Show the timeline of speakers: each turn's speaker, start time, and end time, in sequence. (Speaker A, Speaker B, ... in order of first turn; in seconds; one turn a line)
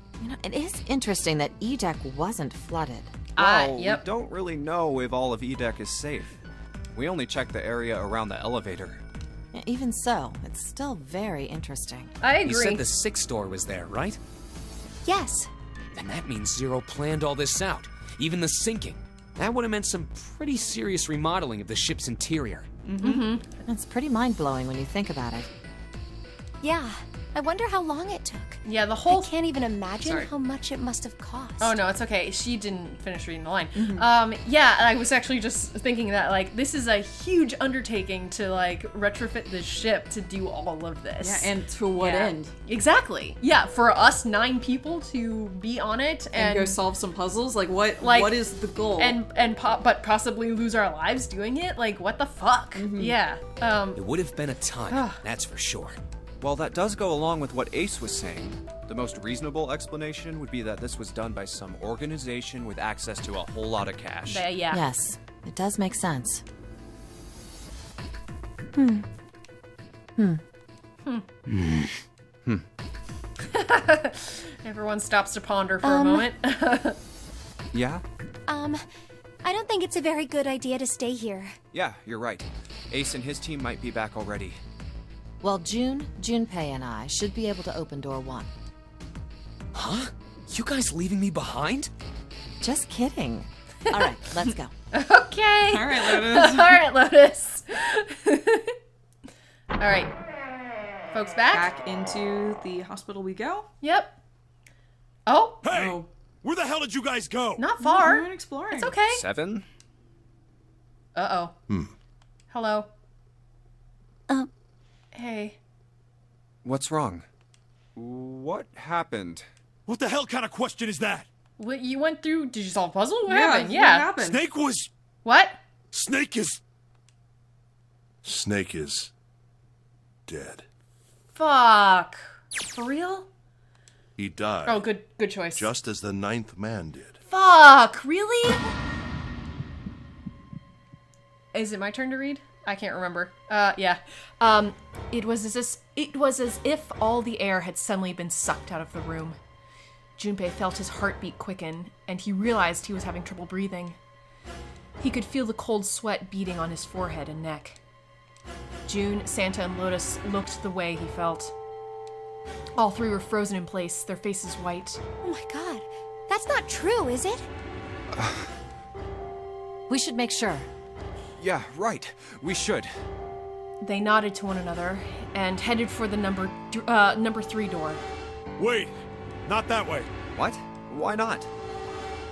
Speaker A: 0.2-3.2
Speaker B: 3.4-4.0
Speaker C: 3.4-6.4
Speaker C: 7.0-9.0
Speaker A: 9.5-12.1
Speaker B: 12.2-12.8
Speaker D: 12.4-14.2
Speaker E: 15.1-15.5
Speaker D: 15.9-22.7
Speaker F: 22.8-23.3
Speaker B: 23.0-23.4
Speaker A: 23.7-25.5
Speaker E: 26.6-31.8
Speaker B: 28.6-29.3
Speaker F: 30.0-30.3
Speaker B: 31.6-46.8
Speaker F: 33.8-34.1
Speaker F: 41.2-42.5
Speaker F: 46.4-49.2
Speaker B: 48.0-48.4
Speaker B: 49.0-54.0
Speaker F: 52.8-53.2
Speaker D: 54.0-56.0
Speaker B: 54.9-55.2
Speaker C: 56.4-64.5
Speaker B: 64.3-64.8
Speaker A: 64.7-66.4
Speaker A: 68.8-69.1
Speaker A: 70.2-70.4
Speaker C: 71.5-71.9
Speaker B: 73.5-77.0
Speaker E: 75.8-76.3
Speaker C: 77.7-78.0
Speaker E: 78.5-78.8
Speaker E: 79.4-81.6
Speaker C: 81.7-84.6
Speaker A: 85.4-88.5
Speaker D: 89.7-91.9
Speaker A: 92.6-94.7
Speaker B: 94.9-98.8
Speaker F: 95.7-96.8
Speaker B: 99.8-100.1
Speaker B: 101.1-101.7
Speaker F: 101.5-103.7
Speaker B: 103.8-104.2
Speaker B: 105.3-105.6
Speaker G: 105.6-107.6
Speaker F: 105.7-106.1
Speaker B: 107.6-109.2
Speaker F: 107.8-109.0
Speaker C: 109.1-109.7
Speaker B: 111.2-111.5
Speaker B: 112.5-112.9
Speaker B: 115.1-115.6
Speaker C: 116.6-117.2
Speaker C: 118.0-119.5
Speaker G: 119.9-121.3
Speaker B: 121.6-124.1
Speaker F: 123.3-124.4
Speaker G: 124.2-124.9
Speaker B: 125.2-125.6
Speaker G: 125.9-126.6
Speaker H: 128.2-129.1
Speaker H: 130.3-130.7
Speaker B: 131.3-133.3
Speaker H: 134.2-134.9
Speaker B: 134.7-135.7
Speaker H: 135.6-137.2
Speaker B: 137.3-138.7
Speaker B: 141.5-149.4
Speaker B: 150.2-154.0
Speaker B: 155.0-157.8
Speaker B: 158.9-161.5
Speaker B: 162.8-165.0
Speaker E: 165.2-167.5
Speaker C: 168.1-168.5
Speaker A: 169.9-170.7
Speaker C: 171.4-172.9
Speaker B: 173.8-178.0
Speaker G: 178.6-178.9
Speaker G: 179.4-180.1
Speaker C: 180.4-181.5